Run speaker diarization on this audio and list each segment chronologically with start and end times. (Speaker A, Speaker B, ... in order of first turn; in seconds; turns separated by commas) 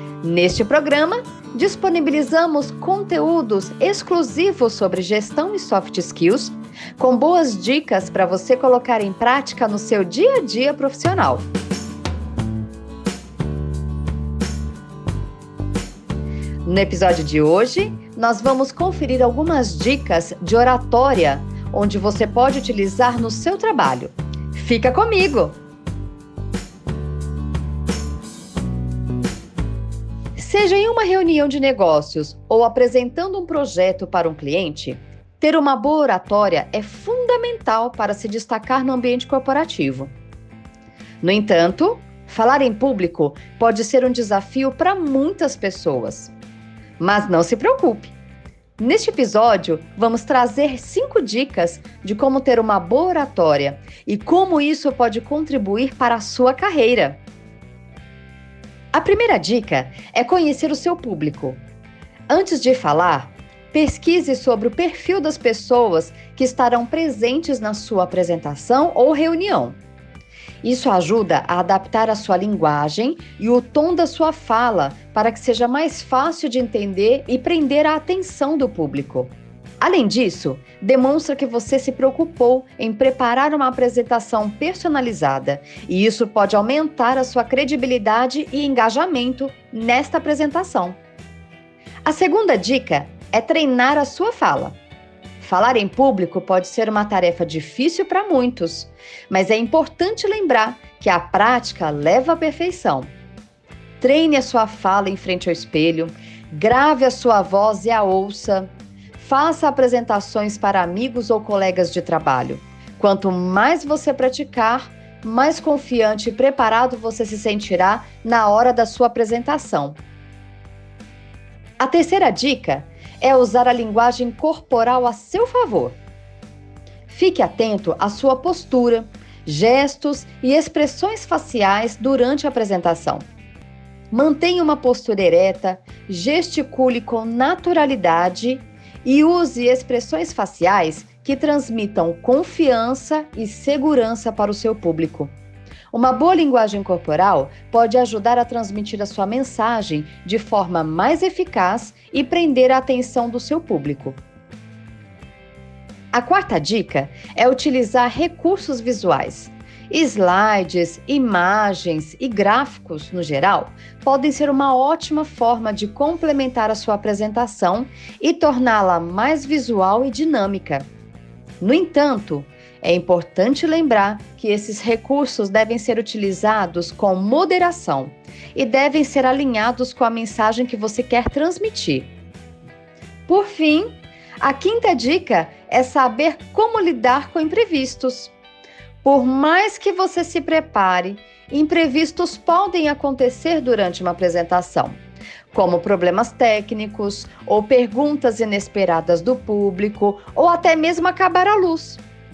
Speaker A: 0.2-11.5, Speaker A: 16.6-25.6, Speaker A: 30.4-40.1, Speaker A: 41.2-46.3, Speaker A: 47.0-48.1, Speaker A: 48.8-57.2, Speaker A: 58.9-61.6, Speaker A: 62.3-69.8, Speaker A: 70.6-91.0, Speaker A: 92.0-94.8, Speaker A: 95.4-103.1, Speaker A: 104.0-120.0, Speaker A: 121.8-126.0, Speaker A: 127.1-133.2, Speaker A: 134.1-145.3, Speaker A: 145.9-154.2, Speaker A: 156.1-170.9, Speaker A: 171.6-182.1, Speaker A: 183.3-188.3, Speaker A: 189.0-195.0, Speaker A: 195.5-202.0